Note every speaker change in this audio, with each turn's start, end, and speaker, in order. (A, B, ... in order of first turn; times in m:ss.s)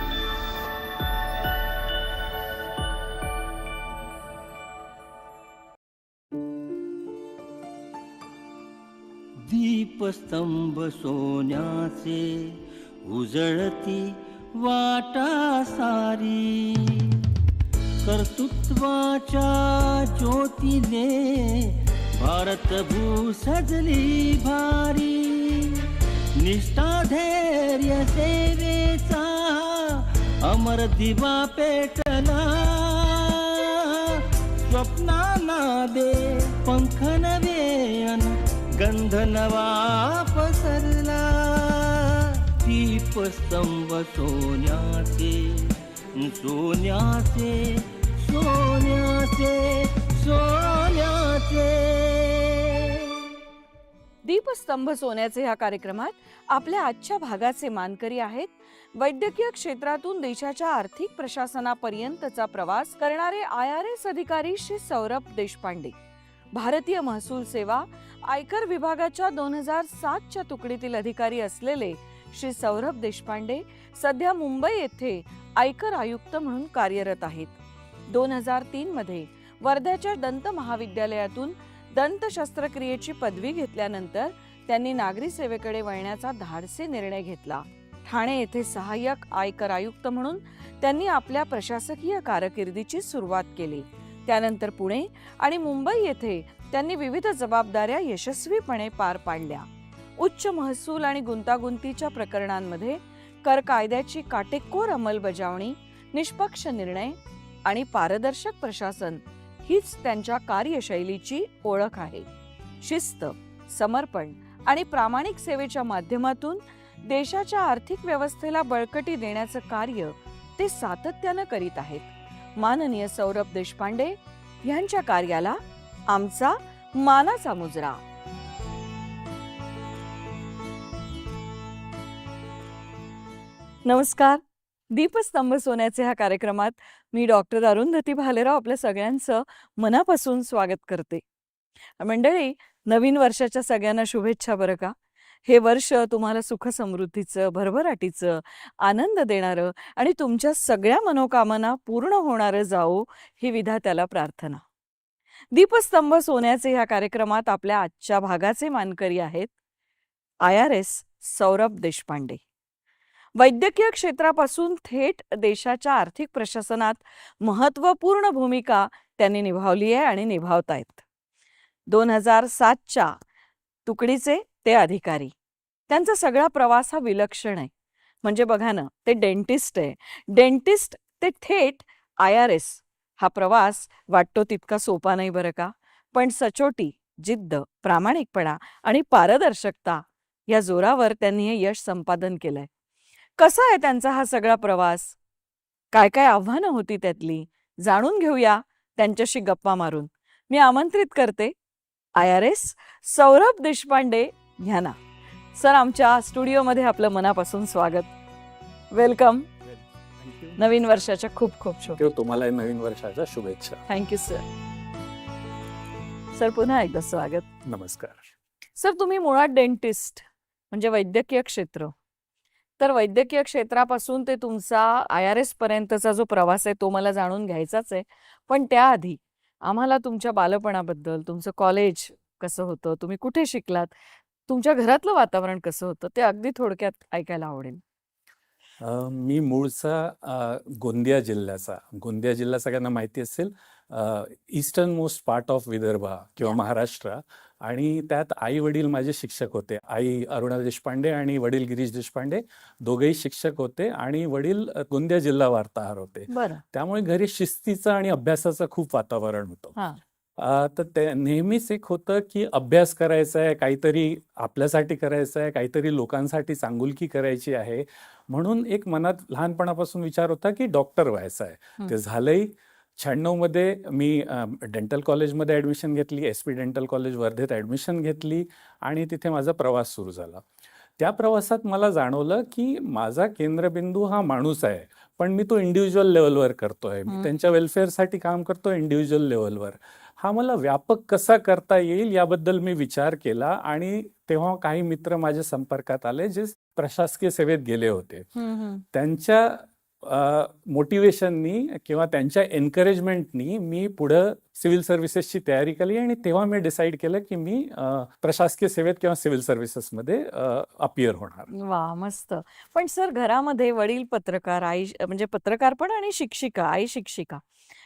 0:09.4-0:12.3 A
0:13.1-0:17.2 A
0:18.0-0:25.8 A
0:26.4-0:45.4 A
0:46.2-0:52.9 A
0:54.2-1:06.0 B
1:06.5-1:17.6 B
1:18.1-1:39.7 B
1:40.2-1:52.3 B
1:52.8-2:08.0 B
2:13.8-2:21.2 B
2:22.0-2:24.9 B
2:25.5-2:34.6 B
2:35.5-2:39.5 B
2:40.4-2:42.4 B
2:43.4-2:51.0 B
2:51.9-2:53.2 B
2:53.9-2:55.3 B
2:55.9-2:57.7 B
2:58.2-3:12.7 B
3:13.4-3:15.2 B
3:15.9-3:21.5 B
3:22.2-3:25.0 B
3:25.6-3:28.1 B
3:28.9-3:29.5 B
3:30.2-3:30.6 C
3:30.6-3:32.0 B
3:31.9-3:33.8 C
3:33.9-3:34.4 B
3:36.3-3:37.5 B
3:37.7-3:38.3 C
3:38.8-3:41.9 B
3:42.8-3:53.9 B
3:54.5-3:57.8 B
3:58.8-4:19.8 C
4:16.3-4:16.6 B
4:20.4-4:40.4 C
4:41.0-4:58.3 C
4:58.4-4:58.8 B
4:58.9-5:11.5 C
5:11.5-5:17.4 B